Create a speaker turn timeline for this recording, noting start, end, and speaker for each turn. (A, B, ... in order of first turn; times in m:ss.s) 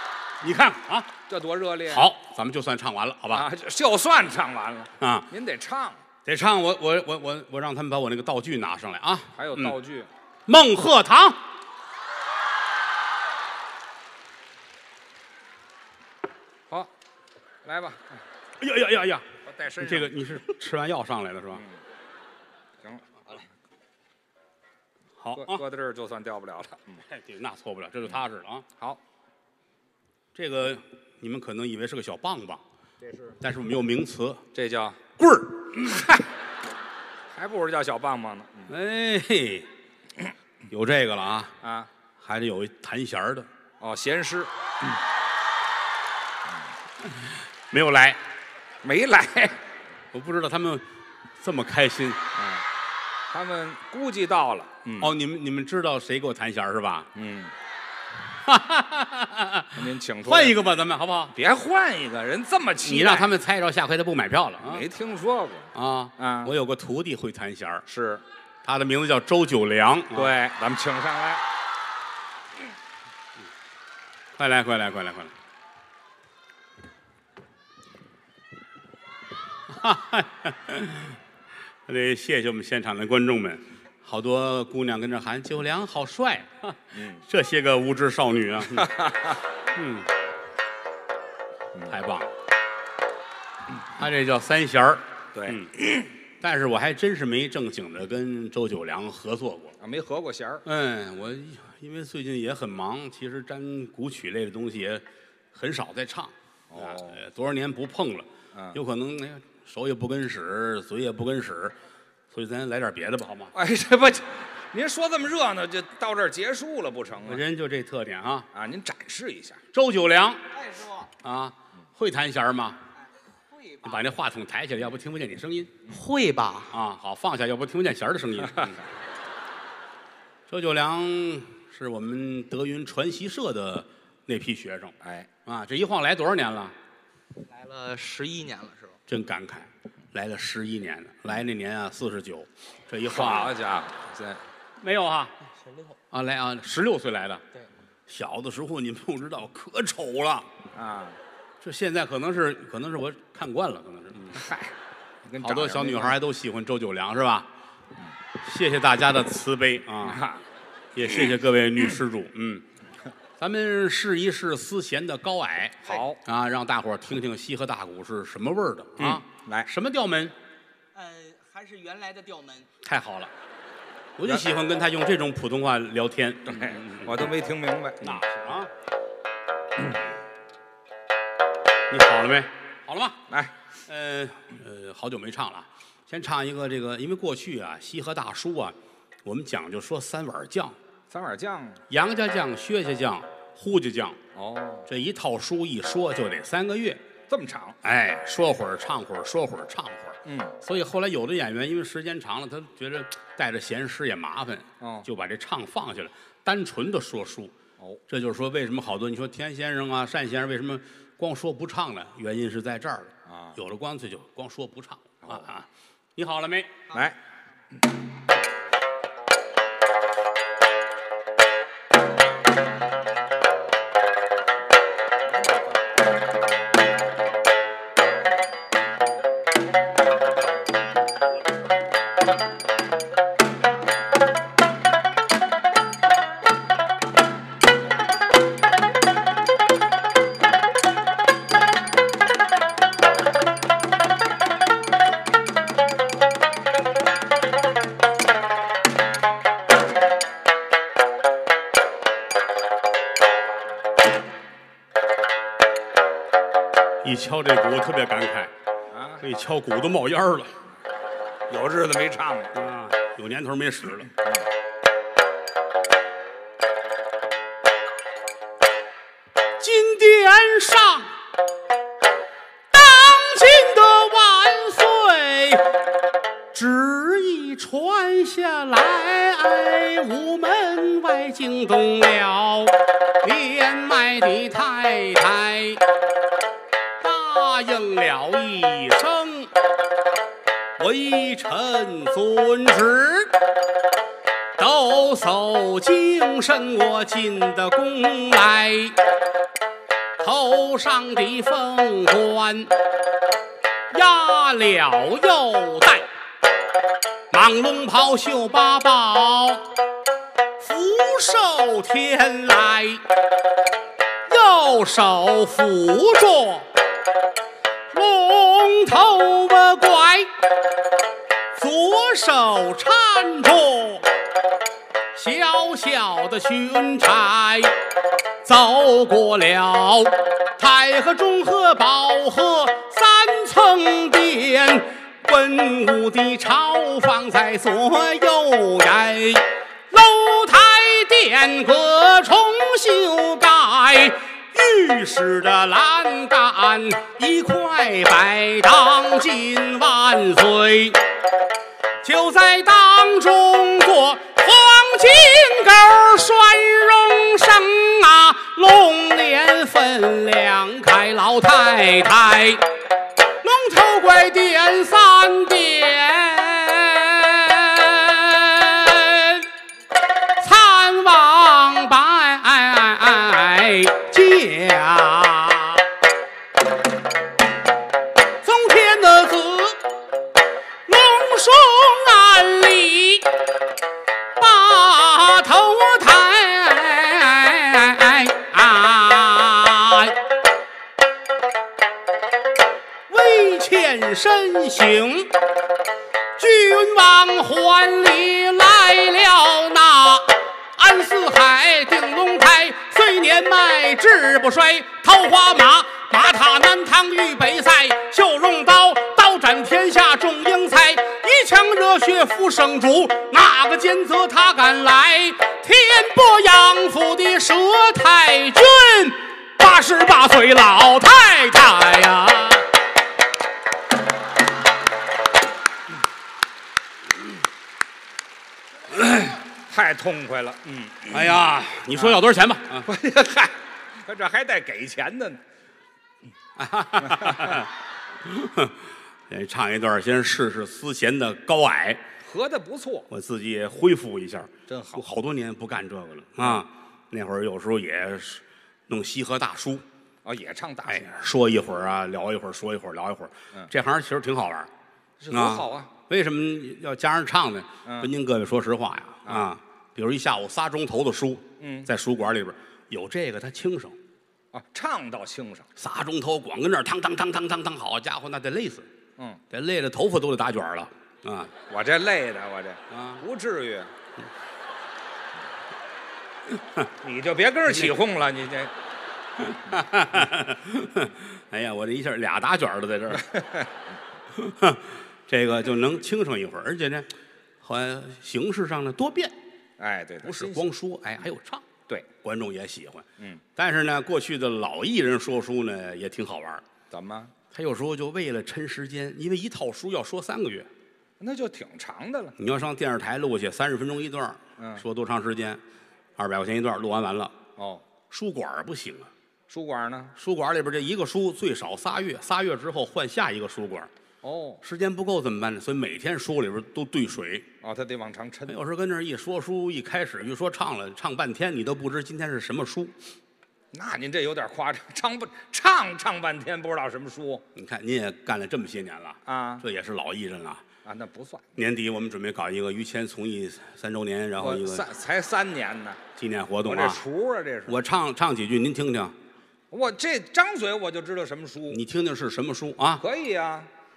0:00.4-0:01.1 A
0:01.3-0:02.1 B
0:01.9-0:03.5 A
0:03.3-0:06.0 B
0:05.0-0:05.3 A
0:06.2-0:09.8 A
0:09.3-0:10.1 B
0:10.5-0:11.4 A
0:17.6-0:18.2 B
0:18.6-0:19.2 A
0:19.4-0:20.2 B
0:19.8-0:21.6 A
0:22.8-0:23.5 B
0:25.2-0:25.6 A
0:25.3-0:27.0 B
0:27.1-0:28.6 A
0:30.3-0:32.6 A
0:33.0-0:33.4 B
0:33.4-0:34.4 A
0:34.5-0:35.0 B
0:35.2-0:36.1 A
0:37.3-0:38.7 B
0:38.7-0:39.7 A
0:40.7-0:41.5 A
0:41.6-0:41.9 B
0:42.2-0:43.5 A
0:43.8-0:44.5 B
0:47.0-0:48.2 A
0:48.8-0:49.6 B
0:50.1-0:50.8 A
0:51.4-0:52.2 A
0:52.3-0:52.6 B
0:53.3-0:55.1 B
0:55.0-0:57.1 A
0:57.1-0:57.5 B
0:58.4-1:01.3 A
0:59.7-1:00.6 B
1:01.3-1:03.3 B
1:02.8-1:04.8 A
1:04.7-1:06.5 B
1:05.7-1:07.8 A
1:07.8-1:08.2 B
1:08.6-1:10.3 A
1:10.1-1:11.4 B
1:14.4-1:15.3 A
1:19.7-1:21.2 A
1:21.9-1:28.9 A
1:26.9-1:27.2 B
1:28.7-1:29.4 B
1:29.7-1:30.1 A
1:31.9-1:32.3 A
1:34.0-1:35.7 A
1:35.3-1:36.0 B
1:36.4-1:39.8 A
1:39.8-1:40.6 B
1:40.6-1:51.8 A
1:46.7-1:47.2 B
1:52.3-1:53.5 A
1:53.5-1:57.4 B
1:57.2-1:58.5 A
1:58.5-1:59.6 B
1:59.7-2:00.4 A
2:00.7-2:01.0 C
2:01.2-2:02.8 A
2:03.6-2:03.9 C
2:03.8-2:05.8 A
2:05.9-2:06.7 C
2:06.7-2:08.8 A
2:10.5-2:14.9 A
2:15.0-2:15.3 B
2:15.4-2:16.7 A
2:17.4-2:19.0 C
2:19.1-2:23.5 A
2:23.0-2:24.4 B
2:24.8-2:25.3 A
2:26.1-2:27.4 A
2:28.1-2:30.5 A
2:30.7-2:31.2 B
2:31.6-2:34.4 A
2:34.3-2:34.7 B
2:35.2-2:36.2 B
2:35.4-2:37.5 A
2:38.4-2:40.2 A
2:40.0-2:40.4 B
2:40.9-2:42.6 A
2:43.4-2:50.3 A
2:45.8-2:46.2 B
2:49.0-2:49.7 B
2:50.9-2:52.7 C
2:52.8-2:53.3 A
2:54.2-2:57.2 A
2:56.5-2:58.2 B
2:58.0-2:58.7 A
3:01.9-3:03.2 A
3:03.9-3:10.8 A
3:11.1-3:11.8 B
3:11.9-3:14.2 A
3:14.3-3:14.9 B
3:14.9-3:17.0 A
3:17.3-3:17.8 B
3:17.8-3:27.5 A
3:20.2-3:20.5 B
3:24.8-3:25.1 B
3:28.1-3:36.8 A
3:33.2-3:33.6 B
3:35.2-3:35.5 B
3:36.9-3:37.2 B
3:45.2-3:45.8 B
4:17.0-4:18.5 A
4:18.9-4:19.2 B
4:19.2-4:20.5 A
4:21.5-4:22.6 B
4:22.5-4:24.1 A
4:29.6-4:31.1 A
4:32.7-4:35.6 A
4:36.5-4:45.8 A
4:47.0-4:49.5 A
4:50.8-4:53.4 A
4:54.6-4:59.0 A
5:00.2-5:02.7 A
5:03.9-5:06.1 A
5:07.3-5:09.7 A
5:10.6-5:13.0 A
5:14.3-5:16.7 A
5:17.9-5:20.3 A
5:21.5-5:24.1 A
5:25.1-5:27.7 A
5:28.4-5:51.0 A
5:52.0-6:02.6 A
6:03.4-6:09.5 A
6:10.4-6:15.9 A
6:18.4-6:19.8 A
6:20.9-6:23.3 A
6:24.4-6:30.2 A
6:33.1-6:35.3 A
6:36.4-7:02.7 A
7:08.9-7:09.4 A
7:09.7-7:11.3 B
7:11.1-7:12.9 A
7:11.9-7:12.2 B
7:12.8-7:15.4 B
7:16.6-7:17.7 A
7:17.0-7:17.6 B
7:18.2-7:22.0 A
7:22.2-7:23.1 B
7:23.1-7:29.8 A
7:24.7-7:25.0 B
7:30.2-7:31.2 B
7:30.9-7:34.7 A
7:35.2-7:35.9 B
7:35.3-7:44.0 A
7:37.8-7:38.1 B
7:39.2-7:39.5 B
7:41.6-7:41.9 B
7:44.5-7:45.7 B
7:45.8-7:48.9 A
7:49.5-7:51.5 A
7:51.7-7:53.9 B
7:52.9-7:53.2 A
7:57.0-7:58.7 B
7:59.4-8:03.3 A
8:03.2-8:03.7 B
8:04.3-8:07.1 A
8:07.6-8:09.3 A
8:09.8-8:10.7 B
8:10.2-8:11.6 A
8:12.2-8:16.6 A
8:16.9-8:17.3 B
8:17.5-8:20.7 A
8:21.2-8:22.3 B
8:22.4-8:25.6 A
8:24.6-8:24.8 B
8:26.2-8:27.3 A
8:27.6-8:27.8 B
8:28.1-8:29.1 A
8:29.5-8:30.1 B
8:30.2-8:33.9 A
8:34.2-8:34.6 B
8:34.6-8:37.4 A
8:37.6-8:38.6 B
8:38.5-8:42.9 A
8:43.7-8:47.4 B
8:47.5-8:50.6 A
8:49.2-8:49.6 B
8:50.8-8:51.5 B
8:51.6-8:54.8 A
8:54.4-8:56.0 B
8:56.2-8:57.0 A
8:56.6-8:57.8 B
8:57.7-8:59.1 A
8:59.7-9:01.8 B
9:01.7-9:03.0 A
9:03.0-9:03.7 B